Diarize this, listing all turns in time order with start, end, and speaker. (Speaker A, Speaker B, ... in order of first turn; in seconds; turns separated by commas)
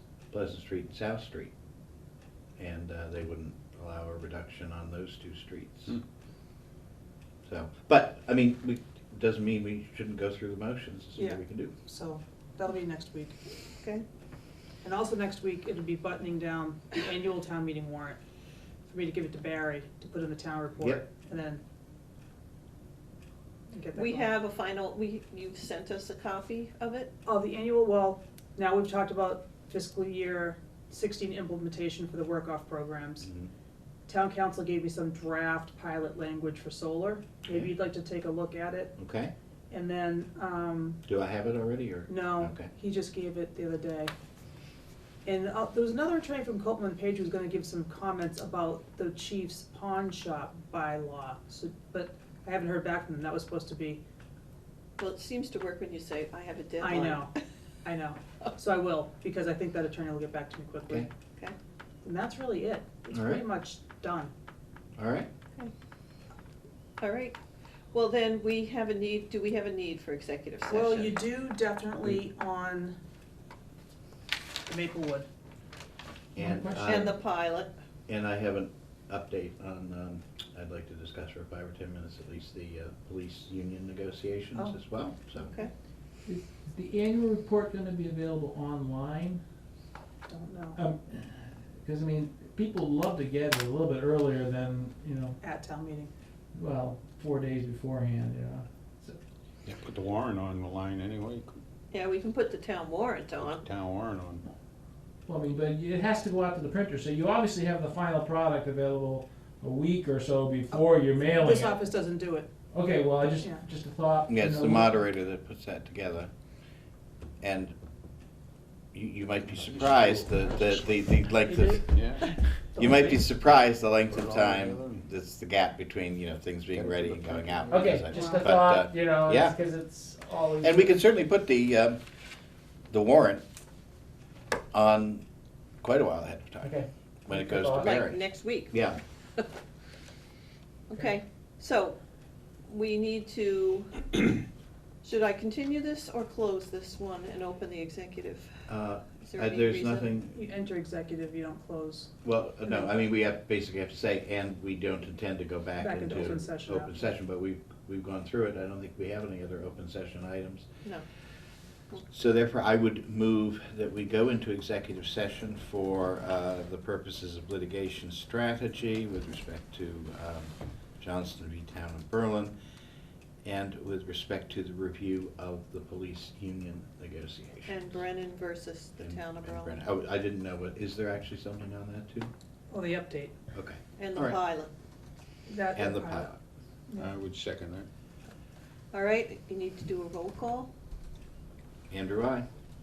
Speaker A: 0.3-1.5, Speaker A: 2.6-6.0, Speaker A: 7.5-11.7, Speaker B: 11.2-13.4, Speaker B: 14.8-18.2, Speaker B: 18.9-21.6, Speaker B: 23.7-24.3, Speaker C: 23.9-27.1, Speaker B: 27.3-33.3, Speaker A: 33.2-33.5, Speaker B: 34.1-38.9, Speaker A: 37.5-37.7, Speaker A: 39.0-39.3, Speaker B: 39.7-41.0, Speaker A: 41.0-42.7, Speaker B: 42.1-44.1, Speaker B: 45.2-54.0, Speaker C: 55.0-57.3, Speaker B: 56.8-57.3, Speaker B: 57.8-61.1, Speaker B: 62.0-64.3, Speaker A: 63.1-63.5, Speaker A: 65.0-65.3, Speaker C: 67.0-67.4, Speaker C: 67.9-71.2, Speaker B: 70.7-73.0, Speaker B: 74.7-75.3, Speaker A: 76.3-77.2, Speaker D: 76.4-77.2, Speaker C: 76.8-77.7, Speaker A: 78.1-85.5, Speaker C: 85.4-85.7, Speaker D: 86.3-89.4, Speaker B: 90.3-90.8, Speaker D: 90.8-95.4, Speaker B: 95.4-96.1, Speaker D: 96.5-99.2, Speaker E: 99.7-101.6, Speaker C: 101.9-103.7, Speaker E: 103.4-104.4, Speaker D: 105.3-111.8, Speaker B: 110.7-112.5, Speaker D: 112.7-115.0, Speaker B: 113.2-113.6, Speaker A: 114.3-116.3, Speaker A: 117.4-117.7, Speaker A: 118.9-129.6, Speaker E: 119.7-120.8, Speaker B: 121.5-123.1, Speaker E: 121.9-122.3, Speaker E: 124.1-125.0, Speaker E: 126.7-128.0, Speaker D: 127.7-131.0, Speaker B: 128.1-128.5, Speaker A: 130.6-132.0, Speaker A: 132.9-133.4, Speaker A: 134.7-135.2, Speaker A: 135.8-136.8, Speaker D: 136.6-138.0, Speaker A: 137.3-139.0, Speaker C: 137.8-138.8, Speaker C: 140.9-142.0, Speaker C: 142.7-144.1, Speaker C: 145.0-148.7, Speaker A: 148.7-150.4, Speaker C: 149.2-150.1, Speaker B: 150.3-152.1, Speaker A: 152.2-160.7, Speaker B: 155.8-156.9, Speaker A: 162.1-172.6, Speaker A: 173.4-178.0, Speaker C: 177.7-179.9, Speaker A: 179.0-182.3, Speaker B: 182.7-183.3, Speaker A: 183.5-184.4, Speaker C: 184.0-184.7, Speaker B: 185.5-186.3, Speaker A: 185.8-186.4, Speaker E: 187.0-187.9, Speaker C: 188.9-190.7, Speaker A: 191.9-192.5